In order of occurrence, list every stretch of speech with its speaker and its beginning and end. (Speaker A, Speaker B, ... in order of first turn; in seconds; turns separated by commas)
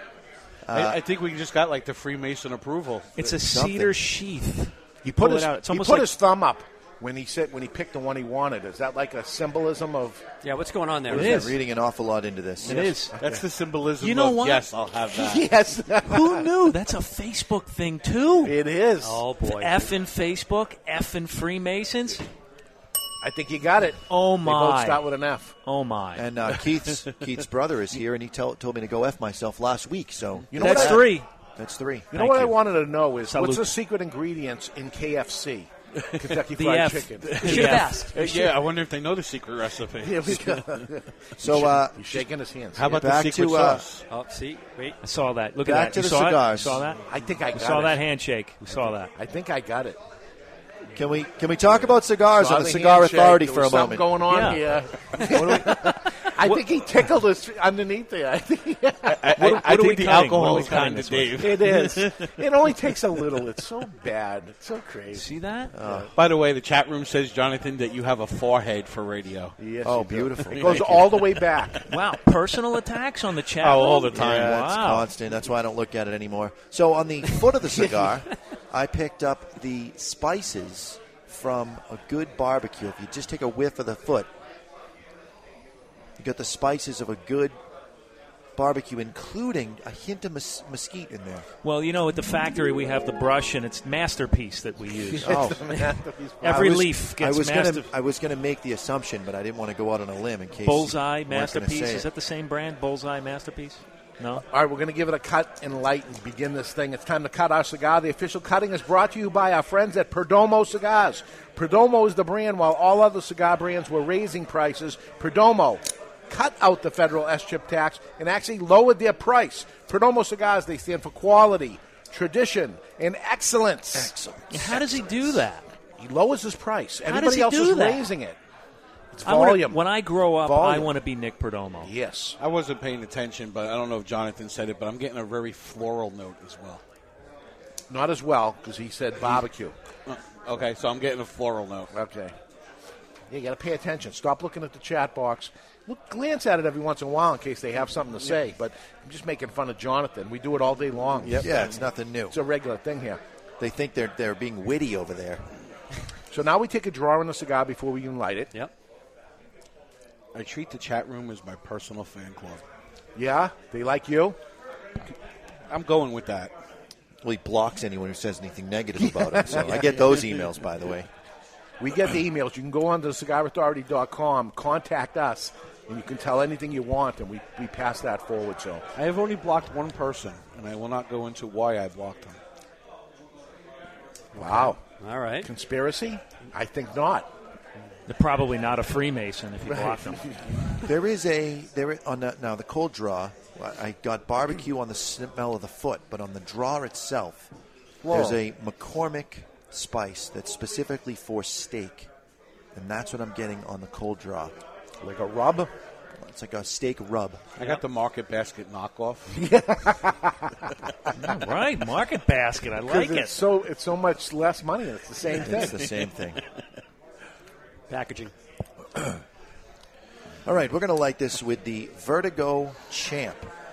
Speaker A: 0.7-1.0, Speaker B: 0.7-3.2, Speaker C: 3.2-6.2, Speaker A: 3.3-4.0, Speaker D: 5.0-10.2, Speaker E: 10.4-11.5, Speaker C: 11.1-11.6, Speaker A: 11.1-13.0, Speaker C: 12.6-13.2, Speaker D: 13.2-13.4, Speaker B: 13.2-15.5, Speaker C: 14.0-14.7, Speaker D: 15.1-16.5, Speaker C: 16.1-18.6, Speaker D: 18.4-19.2, Speaker E: 19.0-19.9, Speaker C: 19.4-22.3, Speaker D: 23.2-25.5, Speaker C: 24.1-25.1, Speaker C: 25.6-26.3, Speaker A: 26.1-32.3, Speaker D: 30.5-31.1, Speaker C: 30.5-31.3, Speaker D: 32.1-37.7, Speaker C: 32.1-32.6, Speaker C: 33.3-33.8, Speaker C: 36.5-38.3, Speaker B: 37.4-40.8, Speaker E: 37.5-38.2, Speaker D: 40.0-43.0, Speaker A: 41.4-42.3, Speaker B: 42.8-44.0, Speaker A: 42.9-43.9, Speaker E: 44.1-45.0, Speaker C: 45.0-49.1, Speaker A: 45.6-46.8, Speaker D: 47.1-48.0, Speaker D: 49.1-50.0, Speaker A: 50.9-54.1, Speaker D: 52.3-60.9, Speaker C: 54.3-54.7, Speaker C: 55.2-55.9, Speaker B: 59.1-62.1, Speaker C: 59.4-61.4, Speaker D: 61.4-65.3, Speaker C: 65.1-65.7, Speaker A: 65.7-66.1, Speaker B: 66.2-69.5, Speaker D: 69.6-71.9, Speaker A: 69.8-71.1, Speaker C: 71.9-75.1, Speaker B: 73.6-74.6, Speaker A: 74.1-84.3, Speaker A: 86.2-87.6, Speaker A: 88.6-91.5, Speaker C: 91.6-95.8, Speaker D: 95.1-96.8, Speaker A: 95.2-95.7, Speaker C: 96.4-97.9, Speaker A: 96.5-102.1, Speaker C: 100.6-104.5, Speaker D: 104.5-124.1, Speaker A: 123.9-125.4, Speaker C: 124.5-125.7, Speaker D: 126.0-128.4, Speaker C: 127.1-128.1, Speaker D: 129.1-129.8, Speaker C: 129.2-131.9, Speaker D: 130.4-130.9, Speaker D: 131.8-132.4, Speaker B: 132.4-136.8, Speaker D: 137.9-139.8, Speaker B: 140.1-141.9, Speaker D: 141.9-142.3, Speaker D: 143.3-153.2, Speaker A: 151.2-152.4, Speaker A: 153.6-155.5, Speaker D: 156.3-158.5, Speaker B: 160.3-162.6, Speaker D: 163.2-164.4, Speaker B: 165.7-166.5, Speaker A: 167.2-171.1, Speaker D: 169.0-170.2, Speaker D: 171.8-178.8, Speaker B: 178.9-182.4, Speaker D: 184.4-184.8, Speaker E: 184.4-185.5, Speaker D: 185.4-187.3, Speaker C: 188.1-190.3, Speaker D: 189.7-190.7, Speaker A: 190.8-197.5, Speaker D: 198.0-198.4, Speaker A: 198.1-202.1, Speaker A: 202.7-204.6, Speaker D: 205.0-205.7, Speaker A: 206.2-207.5, Speaker B: 207.6-209.4, Speaker D: 209.3-210.6, Speaker C: 211.2-213.4, Speaker D: 212.9-215.8, Speaker A: 215.3-216.4, Speaker E: 217.9-218.3, Speaker A: 220.4-223.5